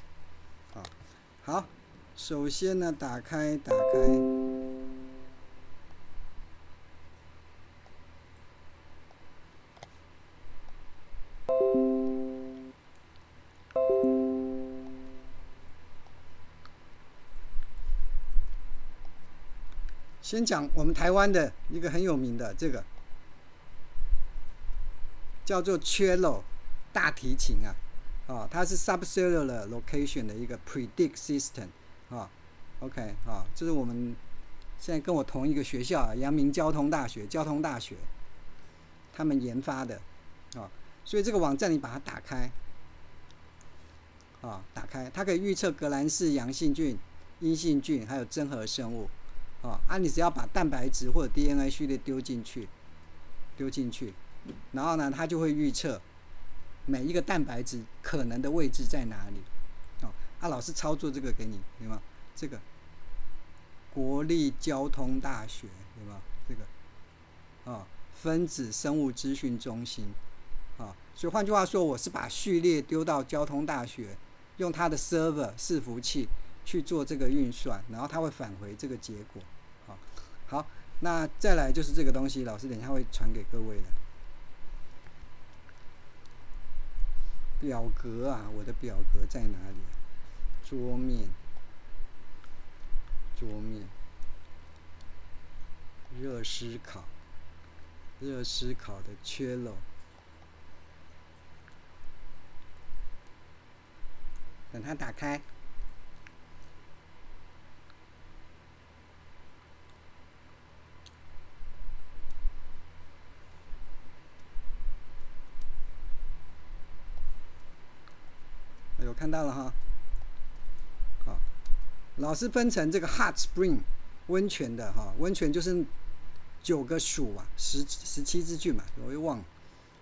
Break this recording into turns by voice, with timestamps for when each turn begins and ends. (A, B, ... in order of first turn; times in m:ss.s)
0:01.4-0:04.3 A
0:20.2-0:22.9 A
0:25.4-0:34.2 A
0:34.8-0:38.1 A
0:39.1-0:42.6 A
0:44.4-0:52.7 A
0:53.6-0:54.2 A
0:54.7-0:56.0 A
0:56.9-0:59.5 A
1:00.0-1:02.6 A
1:03.9-1:06.7 A
1:07.6-1:10.2 A
1:10.8-1:24.0 A
1:27.6-1:30.0 A
1:30.6-1:31.4 A
1:33.4-1:33.9 A
1:36.1-1:37.1 A
1:38.2-1:39.8 A
1:44.7-1:45.4 A
1:59.0-1:59.8 A
2:02.2-2:05.9 A
2:06.6-2:09.5 A